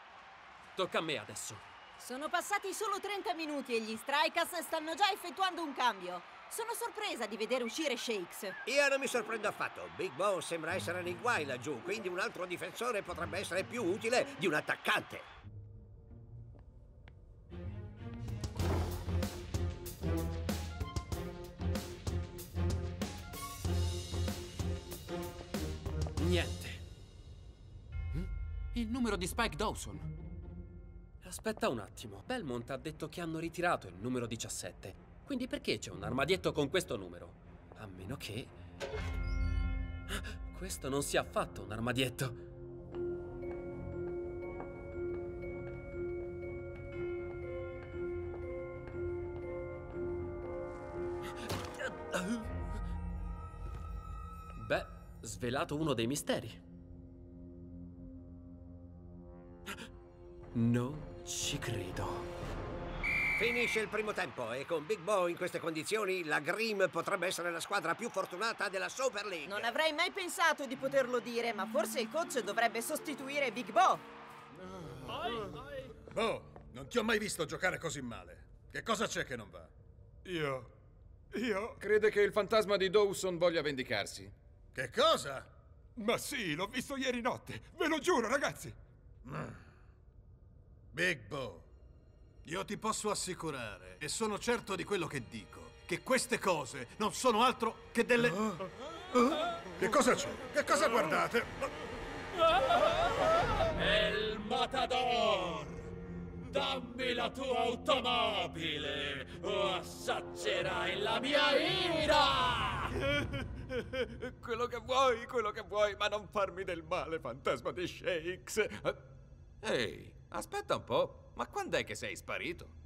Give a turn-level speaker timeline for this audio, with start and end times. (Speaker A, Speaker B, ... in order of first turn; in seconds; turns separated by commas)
Speaker A: 0.8-1.6, Speaker B: 2.0-8.6, Speaker C: 8.7-15.2, Speaker A: 26.2-26.8, Speaker A: 28.1-30.1, Speaker A: 31.2-38.5, Speaker A: 40.1-42.4, Speaker A: 52.0-52.4, Speaker A: 54.5-56.6, Speaker A: 60.5-62.3, Speaker C: 63.4-69.7, Speaker B: 69.5-74.0, Speaker D: 76.1-79.7, Speaker E: 80.2-80.7, Speaker E: 81.3-81.8, Speaker F: 81.8-84.3, Speaker D: 84.7-85.5, Speaker E: 86.0-88.8, Speaker D: 90.9-91.7, Speaker D: 92.4-98.6, Speaker D: 99.1-101.5, Speaker G: 103.8-105.7, Speaker G: 106.5-112.8, Speaker F: 113.9-119.0, Speaker F: 119.6-122.7